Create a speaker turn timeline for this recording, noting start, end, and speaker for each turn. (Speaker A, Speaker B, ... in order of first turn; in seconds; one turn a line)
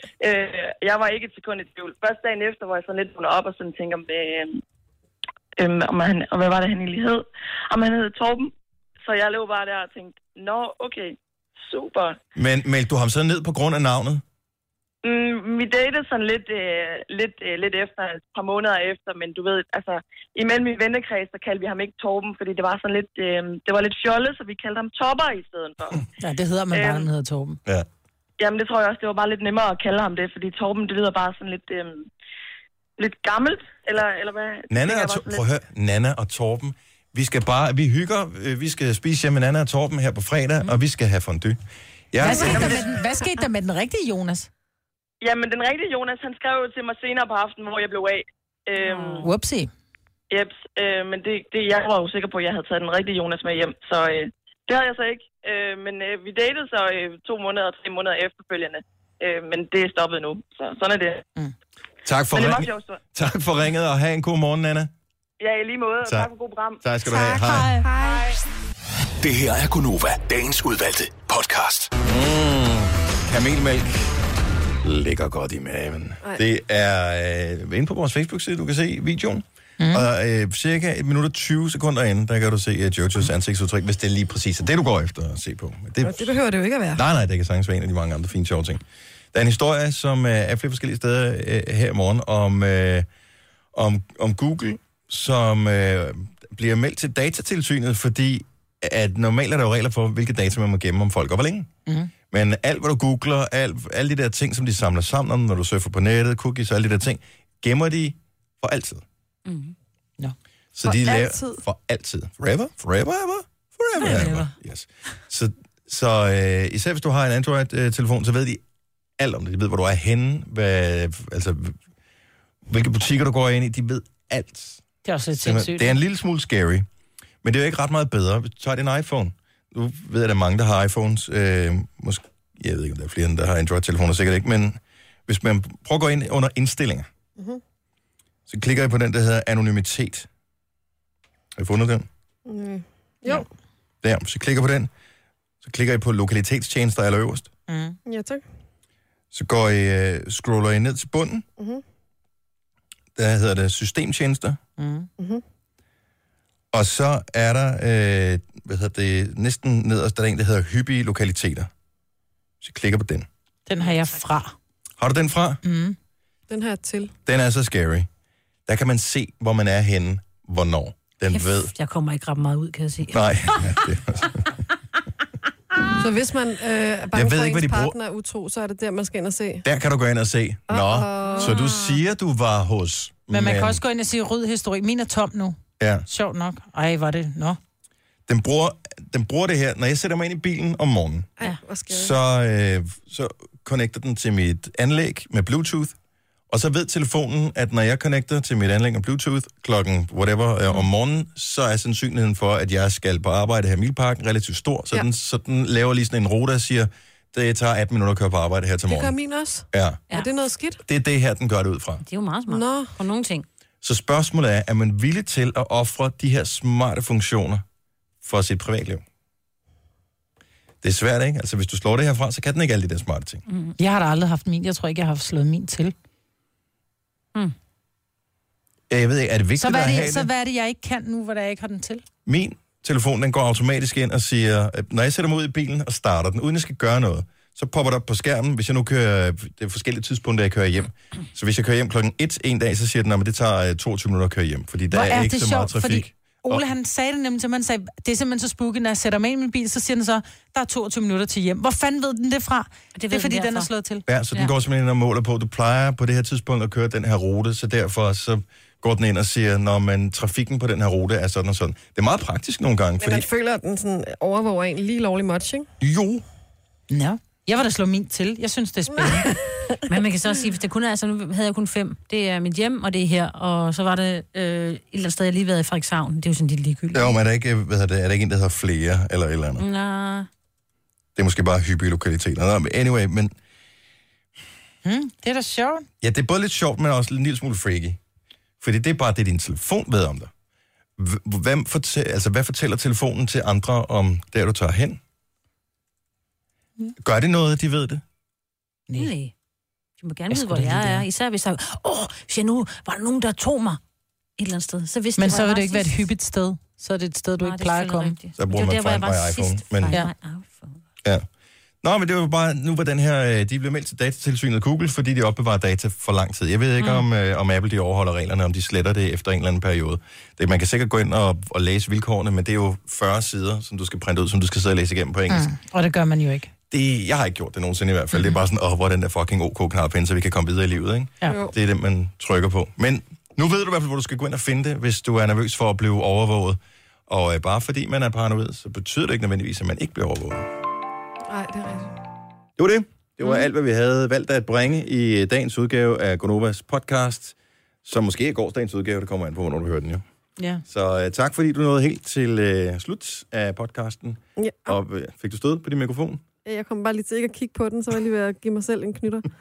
Speaker A: 0.2-4.6
Speaker A: 5.6-12.2
Speaker B: 12.3-14.2
Speaker A: 15.0-26.0
Speaker C: 26.2-27.6
Speaker A: 26.7-27.1
Speaker A: 28.4-32.1
Speaker A: 33.0-35.4
Speaker B: 34.7-41.6
Speaker B: 42.1-42.9
Speaker C: 42.2-44.5
Speaker D: 42.2-42.9
Speaker A: 45.2-49.3
Speaker E: 48.8-49.3
Speaker C: 49.2-49.7
Speaker A: 50.3-61.2
Speaker B: 62.0-64.9
Speaker A: 62.3-63.0
Speaker A: 65.4-66.8
Speaker B: 66.0-66.3
Speaker B: 66.8-67.8
Speaker D: 67.0-68.4
Speaker A: 68.0-68.3
Speaker F: 69.2-71.9
Speaker B: 72.0-74.2
Speaker B: 74.8-86.4
Speaker C: 79.8-80.1
Speaker D: 86.0-87.0
Speaker B: 86.9-88.8
Speaker B: 89.3-93.1
Speaker B: 93.7-101.7
Speaker B: 102.3-109.0
Speaker E: 109.5-109.7
Speaker B: 110.7-118.6
Speaker D: 110.8-111.6
Speaker E: 114.0-114.5
Speaker C: 114.0-114.4
Speaker B: 119.2-121.8
Speaker B: 122.7-124.8
Speaker C: 125.0-125.9
Speaker B: 125.4-126.8
Speaker B: 127.4-137.1
Speaker B: 138.5-140.3
Speaker B: 141.6-142.1
Speaker D: 142.4-143.4
Speaker B: 144.0-144.9
Speaker B: 145.6-147.5
Speaker C: 147.7-148.0
Speaker D: 148.1-148.4
Speaker B: 149.3-151.4
Speaker D: 151.6-151.8
Speaker B: 153.2-154.6
Speaker C: 154.8-155.1
Speaker B: 156.7-161.7
Speaker B: 162.6-163.3
Speaker C: 163.7-164.5
Speaker B: 165.0-165.6
Speaker C: 165.6-165.9
Speaker D: 166.5-167.1
Speaker B: 167.2-168.1
Speaker B: 168.7-171.7
Speaker E: 171.3-173.7
Speaker B: 173.1-174.6
Speaker D: 176.0-179.6
Speaker B: 177.1-177.9
Speaker B: 179.6-183.8
Speaker D: 180.7-181.5
Speaker E: 181.3-181.9
Speaker C: 183.3-187.6
Speaker B: 185.8-186.1
Speaker B: 188.3-191.3
Speaker D: 191.4-192.1
Speaker B: 191.9-195.9
Speaker B: 196.5-209.1
Speaker D: 208.9-210.8
Speaker B: 209.7-210.0
Speaker B: 210.8-212.0
Speaker E: 212.0-213.5
Speaker D: 212.5-212.9
Speaker B: 213.8-217.6
Speaker B: 218.2-219.0
Speaker B: 220.8-223.4
Speaker E: 223.5-223.8
Speaker C: 223.8-225.9
Speaker B: 228.9-230.3
Speaker C: 229.6-232.0
Speaker B: 232.2-246.6
Speaker C: 244.9-254.0
Speaker E: 252.9-253.7
Speaker B: 254.1-263.3
Speaker D: 263.0-265.7
Speaker B: 265.8-266.2
Speaker C: 266.9-269.3
Speaker D: 268.9-269.8
Speaker E: 269.9-277.1
Speaker B: 276.9-279.6
Speaker E: 279.6-280.3
Speaker B: 281.1-283.3
Speaker C: 284.8-285.9
Speaker B: 286.0-288.0
Speaker B: 288.6-290.3
Speaker B: 291.0-295.0
Speaker B: 297.0-298.0
Speaker E: 298.9-299.3
Speaker E: 300.0-303.8
Speaker C: 300.3-301.0
Speaker E: 304.4-306.1
Speaker C: 305.2-308.1
Speaker E: 307.4-310.8
Speaker B: 308.4-310.0
Speaker B: 311.8-325.5
Speaker C: 325.3-326.5
Speaker B: 326.7-340.5
Speaker D: 331.2-331.5
Speaker D: 341.3-341.9
Speaker B: 342.6-350.0
Speaker C: 350.4-350.6
Speaker B: 350.7-356.2
Speaker D: 354.4-354.8
Speaker D: 356.4-359.3